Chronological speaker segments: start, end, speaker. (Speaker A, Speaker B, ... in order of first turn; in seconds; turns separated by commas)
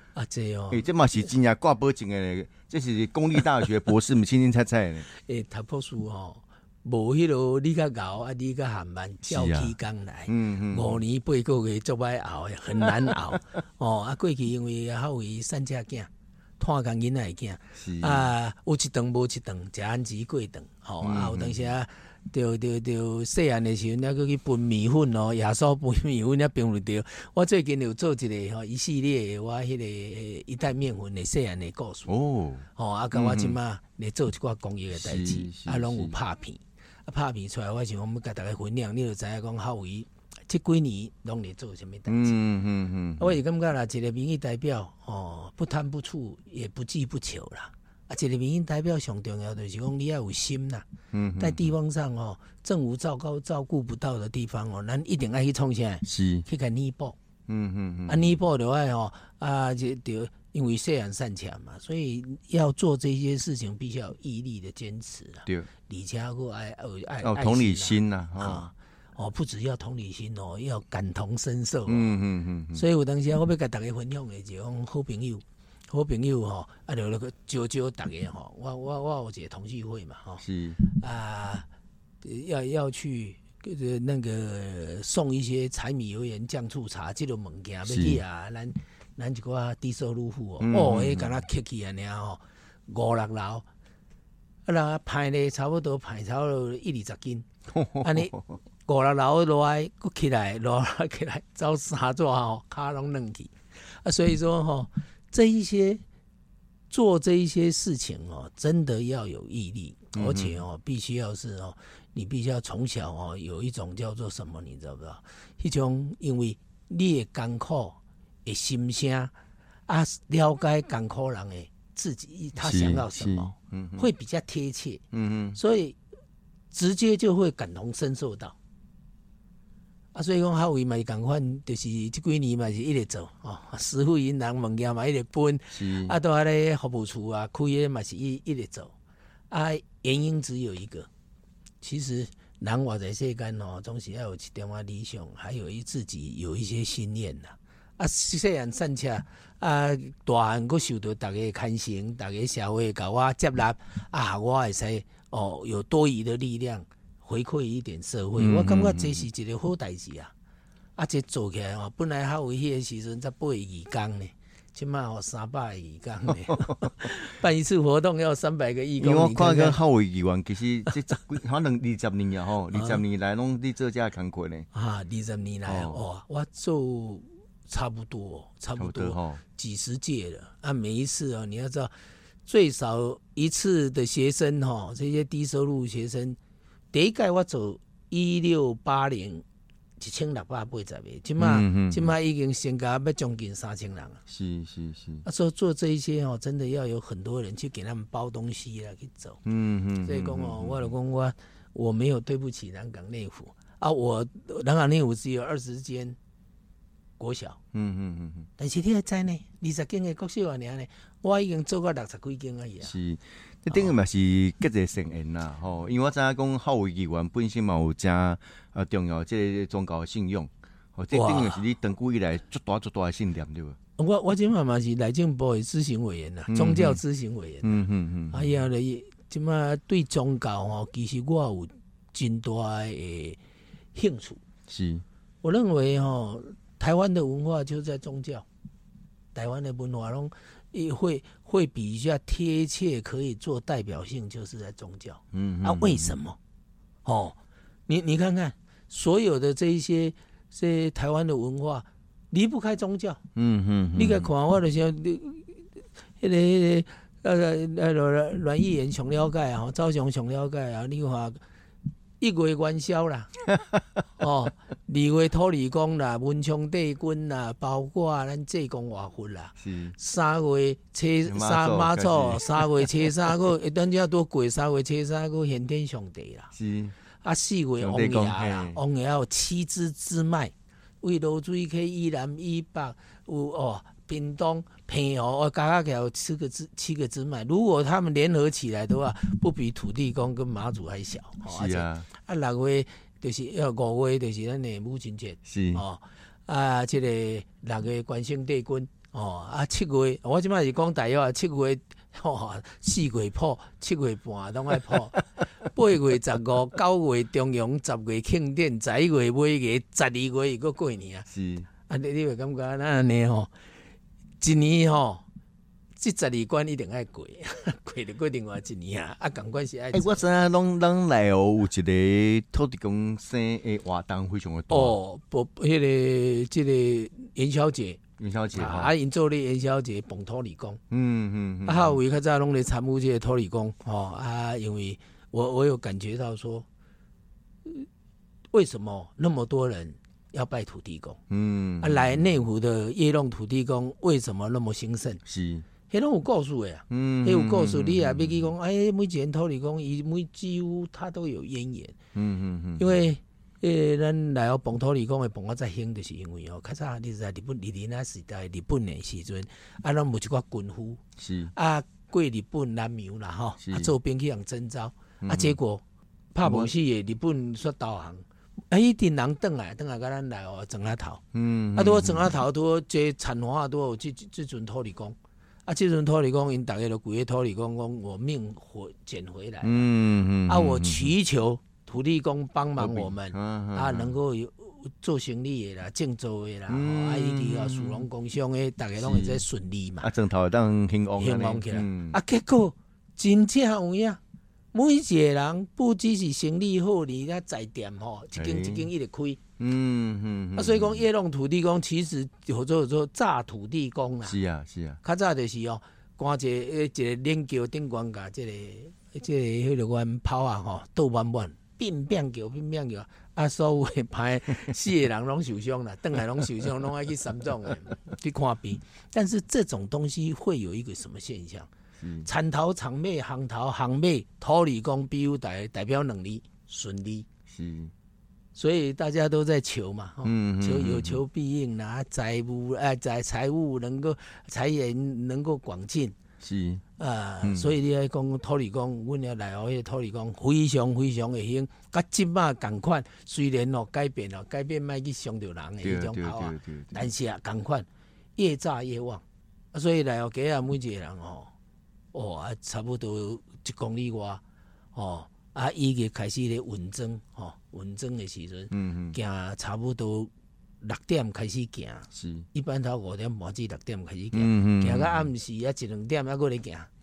Speaker A: 0.1-0.9, Speaker B: 0.7-5.1, Speaker A: 5.1-32.1, Speaker B: 9.3-9.8, Speaker B: 10.3-11.0, Speaker B: 17.8-18.3, Speaker B: 21.0-21.7, Speaker B: 32.1-33.6, Speaker A: 32.8-42.4, Speaker B: 34.9-36.2, Speaker B: 42.1-43.4, Speaker A: 43.2-50.9, Speaker B: 51.1-51.7, Speaker A: 51.4-57.2, Speaker B: 56.0-56.5, Speaker B: 57.5-58.4, Speaker A: 58.1-72.2, Speaker B: 67.2-68.7, Speaker B: 71.9-72.8, Speaker A: 72.7-81.7, Speaker B: 80.4-80.8, Speaker A: 82.2-93.7, Speaker B: 87.9-88.2, Speaker B: 90.6-91.4, Speaker A: 94.7-97.5, Speaker B: 97.7-98.6, Speaker A: 98.0-98.3, Speaker A: 98.9-106.0, Speaker A: 106.9-119.3, Speaker B: 110.1-110.6, Speaker A: 119.9-126.0, Speaker B: 122.6-124.1, Speaker B: 125.1-125.6, Speaker A: 126.7-128.6, Speaker A: 130.1-138.9, Speaker B: 135.7-136.2, Speaker A: 139.5-141.1, Speaker A: 141.8-160.3, Speaker B: 158.4-159.2, Speaker A: 160.9-169.8, Speaker B: 166.5-166.8, Speaker B: 169.0-174.7, Speaker A: 172.7-173.0, Speaker A: 174.7-181.9, Speaker B: 175.7-176.0, Speaker B: 178.8-179.4, Speaker A: 182.4-186.4, Speaker A: 186.9-189.4, Speaker A: 190.0-194.2, Speaker B: 191.4-192.1, Speaker B: 194.3-195.2, Speaker A: 195.2-199.4, Speaker B: 199.4-200.9, Speaker A: 200.0-206.2, Speaker A: 207.2-207.6, Speaker B: 207.7-208.5, Speaker A: 208.6-212.9, Speaker B: 212.8-223.8, Speaker A: 221.1-221.6, Speaker A: 224.0-233.4, Speaker B: 226.5-227.0, Speaker B: 227.6-228.6, Speaker A: 233.9-234.4, Speaker B: 234.7-235.0, Speaker A: 235.4-238.4, Speaker A: 239.3-246.4, Speaker B: 245.3-246.2, Speaker A: 247.1-253.2, Speaker B: 253.3-254.3, Speaker A: 253.9-255.5, Speaker A: 256.2-261.4, Speaker A: 262.2-263.3, Speaker A: 264.2-276.5, Speaker B: 269.6-269.9, Speaker B: 271.3-273.1, Speaker B: 276.5-276.9, Speaker A: 277.2-311.3, Speaker B: 277.8-278.8, Speaker B: 291.4-292.1, Speaker B: 295.4-295.8, Speaker B: 311.3-311.7, Speaker A: 311.9-313.5, Speaker A: 314.4-315.2, Speaker A: 315.9-320.2, Speaker B: 319.9-325.0, Speaker A: 324.7-330.8, Speaker B: 328.2-328.9, Speaker B: 330.9-332.0, Speaker A: 331.6-336.7, Speaker A: 338.5-341.2, Speaker B: 341.3-342.3, Speaker A: 341.8-345.2, Speaker B: 345.2-345.7, Speaker A: 345.9-352.0, Speaker B: 346.9-348.5, Speaker B: 352.1-353.0, Speaker A: 352.8-361.0, Speaker B: 361.2-361.5, Speaker A: 361.5-365.8, Speaker B: 363.6-363.9, Speaker B: 365.2-365.6, Speaker A: 366.3-371.2, Speaker B: 366.4-366.7, Speaker B: 371.3-372.3, Speaker A: 371.8-379.9, Speaker B: 379.6-381.1, Speaker A: 380.5-390.1, Speaker B: 382.8-384.2, Speaker B: 386.7-388.1, Speaker B: 389.0-389.4, Speaker B: 390.0-392.2, Speaker A: 391.2-394.2, Speaker A: 394.7-399.4, Speaker B: 398.3-398.9, Speaker B: 399.6-401.0, Speaker A: 400.6-404.4, Speaker B: 404.2-405.0, Speaker A: 405.0-421.7, Speaker B: 422.0-422.3, Speaker A: 422.2-427.3, Speaker B: 427.5-427.9, Speaker A: 428.6-436.2, Speaker B: 430.2-431.2, Speaker B: 436.4-436.8, Speaker A: 437.0-451.5, Speaker B: 437.4-437.7, Speaker B: 445.8-447.1, Speaker A: 452.1-454.4, Speaker A: 454.9-466.9, Speaker B: 458.7-459.2, Speaker B: 462.1-462.5, Speaker B: 464.3-465.3